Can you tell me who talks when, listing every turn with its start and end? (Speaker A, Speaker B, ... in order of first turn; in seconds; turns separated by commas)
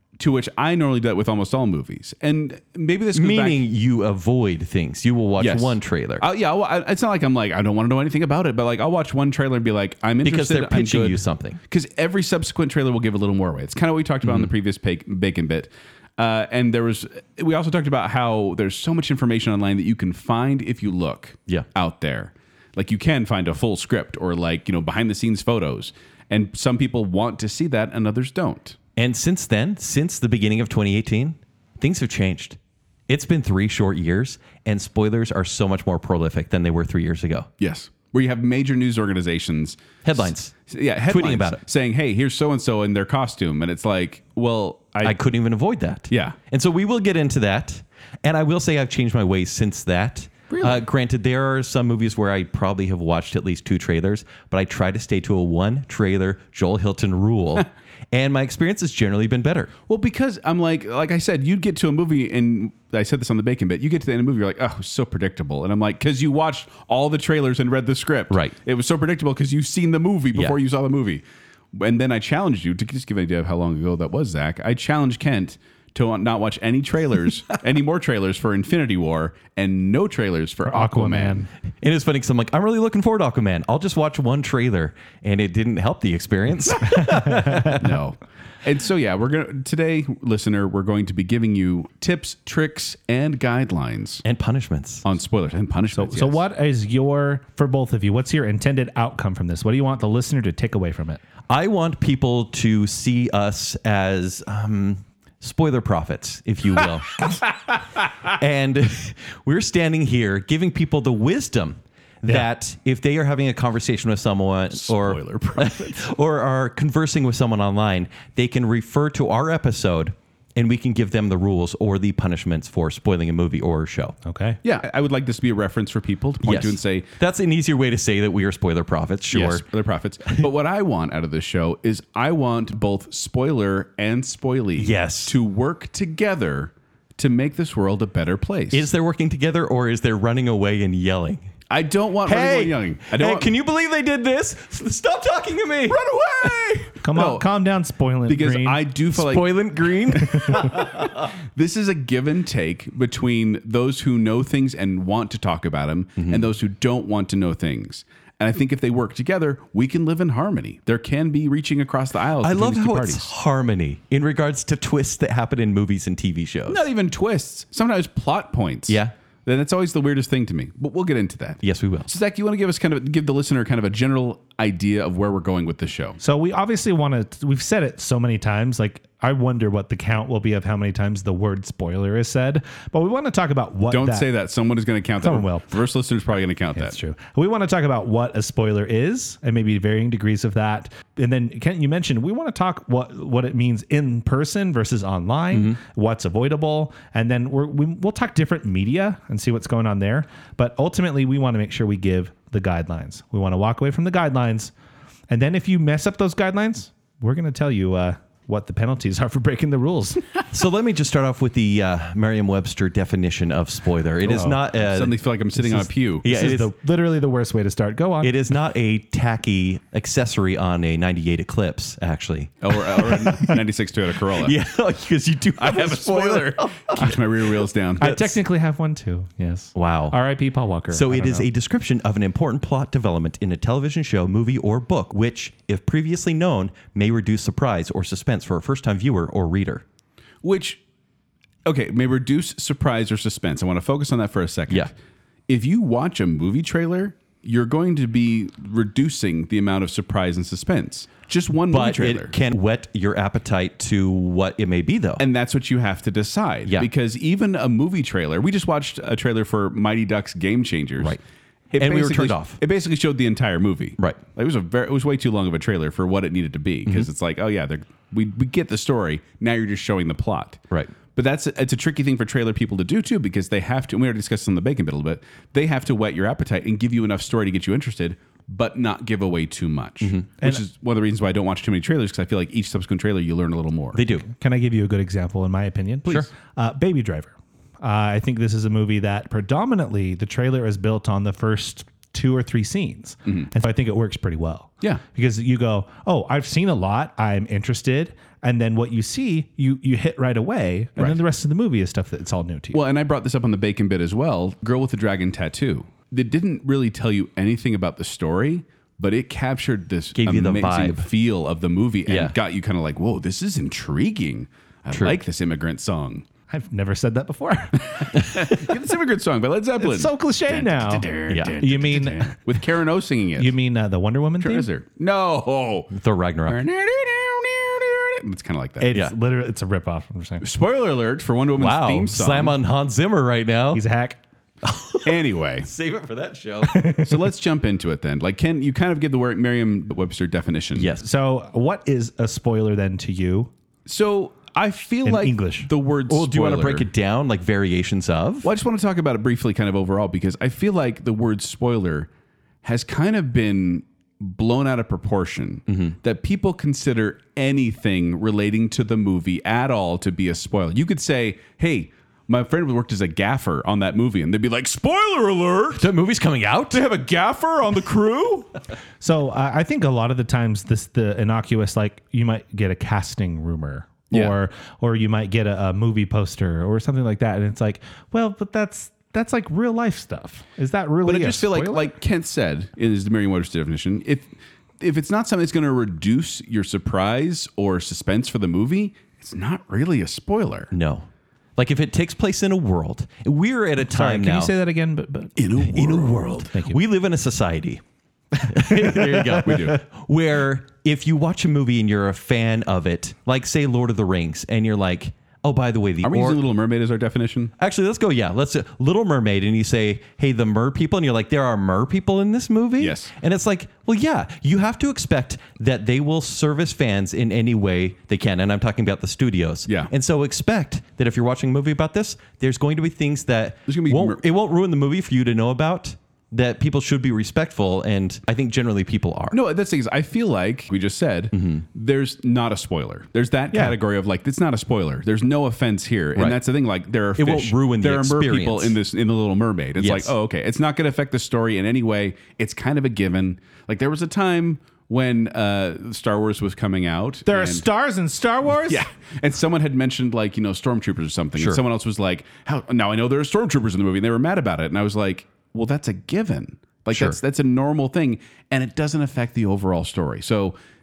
Speaker A: 0.2-3.6, Speaker B: 3.1-6.2, Speaker A: 5.4-28.8, Speaker B: 10.2-11.6, Speaker B: 14.2-14.5, Speaker B: 28.9-37.5, Speaker A: 37.6-45.2, Speaker B: 40.0-40.5, Speaker B: 41.1-41.6, Speaker B: 45.0-59.7, Speaker A: 46.1-46.4, Speaker A: 50.5-50.8, Speaker A: 59.9-71.2, Speaker A: 71.7-81.5, Speaker C: 80.7-81.5, Speaker B: 81.8-87.9, Speaker C: 87.1-87.7, Speaker A: 87.7-94.2, Speaker B: 94.2-95.0, Speaker A: 95.0-96.4, Speaker C: 95.9-101.2, Speaker B: 101.5-107.2, Speaker B: 108.2-124.2, Speaker A: 114.7-116.0, Speaker C: 124.2-124.6, Speaker A: 124.6-127.1, Speaker B: 126.4-129.6, Speaker A: 129.3-138.9, Speaker B: 134.8-135.4, Speaker B: 138.7-141.5, Speaker A: 141.7-143.5, Speaker B: 142.2-146.8, Speaker A: 145.9-147.5, Speaker C: 147.0-148.8, Speaker A: 148.3-163.3, Speaker B: 149.1-151.2, Speaker B: 156.2-156.5, Speaker B: 162.4-166.8, Speaker A: 166.7-176.2, Speaker B: 168.9-169.1, Speaker B: 171.6-172.1, Speaker C: 176.2-184.3, Speaker A: 183.9-187.0, Speaker C: 185.2-185.7, Speaker C: 186.8-204.7, Speaker C: 205.3-210.2, Speaker B: 210.5-215.1, Speaker A: 214.3-216.2, Speaker C: 215.6-218.3, Speaker B: 216.2-216.7, Speaker B: 218.2-223.5, Speaker A: 222.6-224.6, Speaker B: 224.3-227.2, Speaker A: 225.6-228.2, Speaker C: 228.0-231.5, Speaker B: 228.0-228.4, Speaker B: 229.8-230.2, Speaker B: 230.9-239.8, Speaker A: 240.4-240.8, Speaker A: 241.6-244.9, Speaker A: 245.5-252.3, Speaker B: 251.7-255.2, Speaker A: 255.2-261.2, Speaker A: 261.7-270.6, Speaker B: 261.8-262.6, Speaker A: 271.1-284.0, Speaker B: 283.9-284.2, Speaker C: 284.1-302.8, Speaker A: 302.7-316.2, Speaker B: 310.1-311.1, Speaker B: 312.1-312.4, Speaker B: 314.9-315.2, Speaker C: 316.5-318.2, Speaker A: 317.8-323.5, Speaker C: 319.8-322.4, Speaker B: 321.3-321.6, Speaker C: 323.4-324.7, Speaker A: 324.4-325.9, Speaker B: 325.9-326.6, Speaker A: 326.5-328.9, Speaker C: 328.8-330.4, Speaker A: 330.4-332.6, Speaker B: 331.6-333.8, Speaker C: 333.7-334.2, Speaker B: 334.6-336.8, Speaker A: 335.0-335.7, Speaker C: 336.7-337.1, Speaker A: 337.0-340.9, Speaker B: 340.8-341.1, Speaker C: 341.0-343.5, Speaker A: 343.9-346.9, Speaker C: 345.0-345.7, Speaker B: 346.1-348.5, Speaker A: 348.4-352.1, Speaker A: 352.6-365.9, Speaker B: 365.8-366.8, Speaker A: 366.7-368.5, Speaker C: 369.0-381.9, Speaker A: 381.1-390.7, Speaker B: 390.7-394.5, Speaker C: 393.8-396.8, Speaker A: 395.4-396.5, Speaker B: 395.7-397.8, Speaker B: 398.4-406.4, Speaker C: 398.5-399.5, Speaker A: 399.0-399.8, Speaker A: 406.0-407.5, Speaker B: 407.6-429.4, Speaker A: 412.8-413.1, Speaker A: 423.7-424.2, Speaker A: 429.3-447.6, Speaker B: 431.3-431.6, Speaker B: 437.2-438.8, Speaker B: 439.8-440.1, Speaker C: 447.2-448.8, Speaker A: 448.6-460.6, Speaker B: 451.4-451.6, Speaker B: 456.9-457.2